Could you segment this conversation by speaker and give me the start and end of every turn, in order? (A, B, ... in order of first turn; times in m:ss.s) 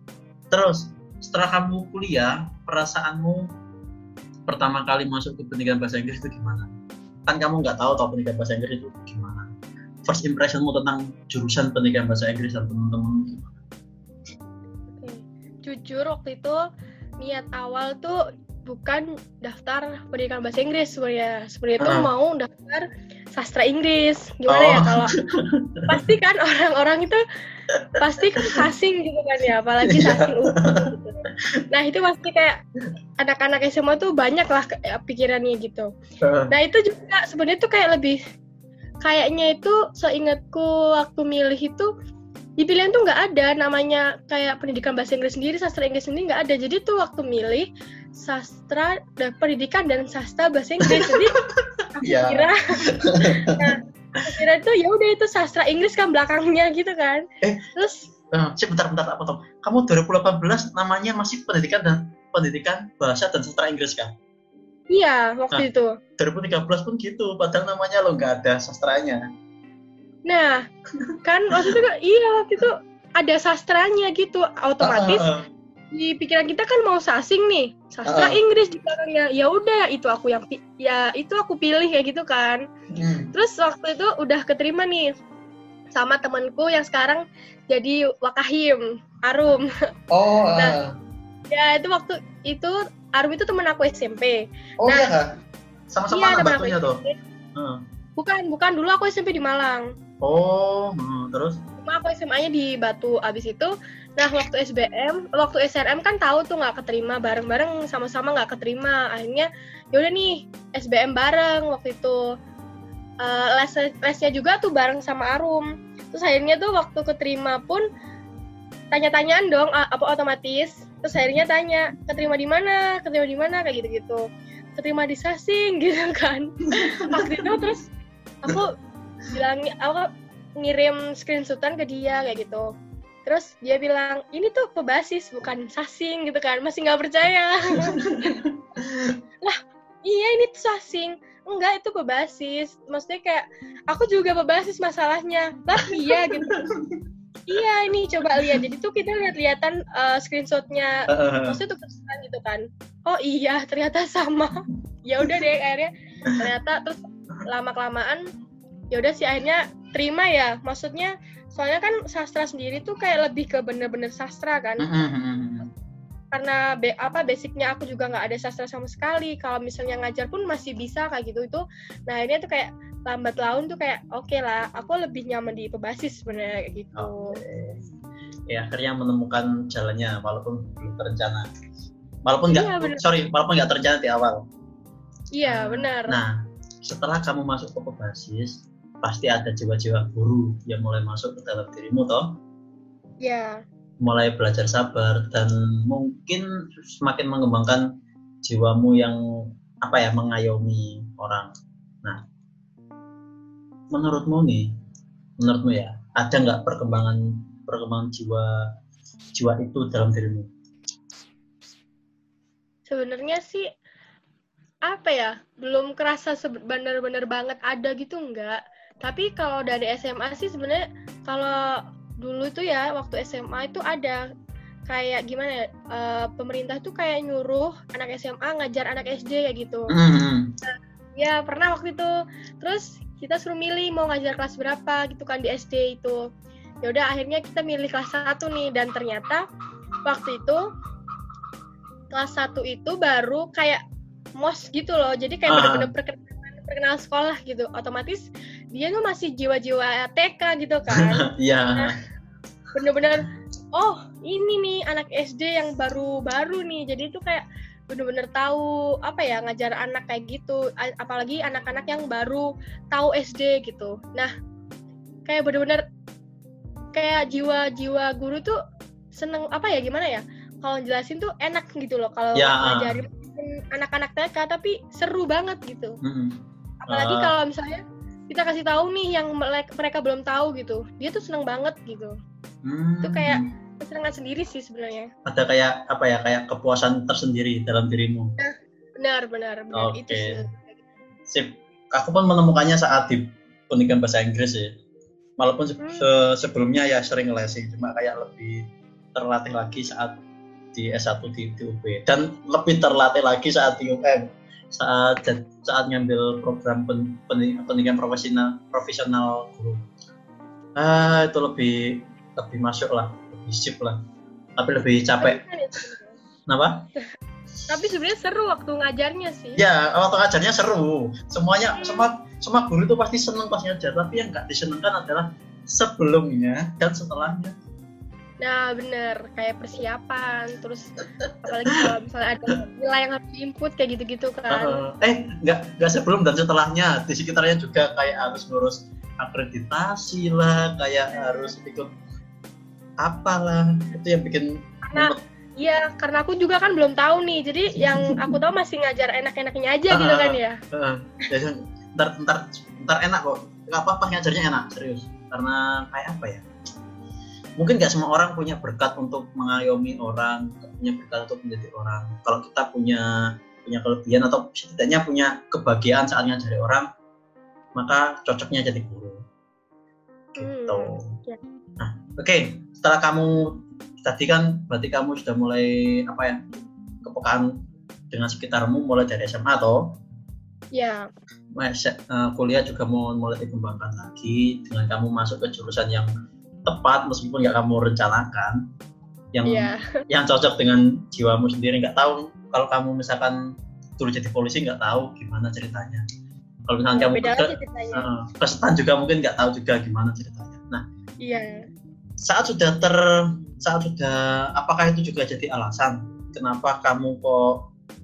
0:00.5-0:03.5 A
0:04.5-0:06.7 A
0:07.3-0:09.5 A
0:10.0-0:13.4 A
0:15.0-0:16.6 B
0:17.2-0:25.1 B
0:21.8-0:22.1 A
0:24.5-0:26.0 A
0:25.9-0:27.2 B
0:27.7-0:28.0 A
0:28.0-0:32.6 B
0:29.8-0:30.9 A
0:33.2-0:35.9 B
0:36.2-0:36.5 A
0:36.5-0:38.2 B
0:39.0-0:41.9 B
0:42.6-0:51.4 B
0:50.8-0:53.7 A
0:52.0-0:57.2 B
0:57.4-0:57.7 A
0:57.8-0:58.1 B
0:58.3-1:04.1 A
1:04.9-1:05.9 B
1:06.2-1:09.2 A
1:10.3-1:10.6 B
1:11.0-1:11.8 A
1:11.2-1:15.2 B
1:14.8-1:15.4 A
1:15.9-1:22.6 B
1:18.1-1:18.4 A
1:22.9-1:23.3 A
1:23.3-1:25.1 B
1:25.9-1:29.7 B
1:30.1-1:30.9 A
1:31.5-1:35.1 B
1:34.8-1:35.3 A
1:35.9-1:37.0 A
1:36.1-1:37.2 B
1:38.2-1:39.8 B
1:40.2-1:41.6 A
1:41.8-1:52.2 B
1:53.2-1:57.8 B
1:58.9-2:04.2 B
2:04.8-2:07.9 B
2:06.8-2:07.7 A
2:08.4-2:08.7 B
2:09.3-2:12.7 B
2:13.2-2:18.4 B
2:17.7-2:19.2 A
2:19.4-2:26.6 B
2:25.8-2:27.0 A
2:27.5-2:38.2 B
2:31.1-2:31.6 A
2:38.9-2:44.9 B
2:44.8-2:45.7 A
2:46.3-2:57.4 B
2:56.9-2:57.8 A
2:58.5-3:01.5 A
3:02.2-3:04.4 A
3:02.5-3:03.0 B
3:05.3-3:06.2 B
3:05.5-3:12.4 A
3:13.2-3:13.6 B
3:14.0-3:17.8 A
3:18.4-3:19.2 A
3:19.8-3:21.5 A
3:23.9-3:24.7 A
3:25.4-3:28.7 A
3:29.3-3:30.5 A
3:32.9-3:33.7 B
3:34.8-3:44.2 B
3:44.9-3:49.9 B
3:49.9-3:50.5 A
3:50.6-3:56.2 B
3:56.8-3:59.4 B
4:00.0-4:00.6 B
4:02.1-4:03.8 B
4:04.4-4:11.9 B
4:05.5-4:05.9 A
4:10.9-4:11.9 A
4:12.7-4:24.3 B
4:25.3-4:25.8 B
4:26.9-4:28.6 B
4:29.1-4:36.0 B
4:32.3-4:32.9 A
4:36.0-4:37.3 A
4:36.9-4:42.1 B
4:42.6-4:43.5 A
4:43.0-4:45.1 B
4:45.3-4:48.3 A
4:48.4-4:50.7 B
4:49.7-4:50.4 A
4:51.3-4:54.7 A
4:55.4-4:58.6 A
4:55.8-4:56.1 B
4:59.1-5:00.1 A
5:00.7-5:09.8 A
5:10.8-5:14.0 A
5:14.6-5:15.4 A
5:15.2-5:16.2 B
5:16.5-5:16.8 A
5:17.7-5:19.6 B
5:19.6-5:27.5 A
5:21.8-5:22.1 B
5:28.4-5:30.9 B
5:31.4-5:34.8 B
5:34.5-5:41.9 A
5:41.1-5:41.5 B
5:43.0-5:45.2 A
5:44.9-5:50.6 B
5:47.8-5:48.4 A
5:49.9-5:56.4 A
5:57.6-6:06.9 A
6:07.7-6:09.2 A
6:10.3-6:11.1 A
6:10.4-6:11.4 B
6:11.8-6:16.4 A
6:17.0-6:17.5 A
6:18.1-6:20.0 A
6:20.7-6:21.0 B
6:21.5-6:26.1 A
6:26.6-6:28.6 A
6:29.3-6:33.4 A
6:29.4-6:29.8 B
6:34.0-6:36.0 A
6:36.7-6:40.8 A
6:36.9-6:38.0 B
6:41.2-6:41.6 B
6:42.2-6:47.7 A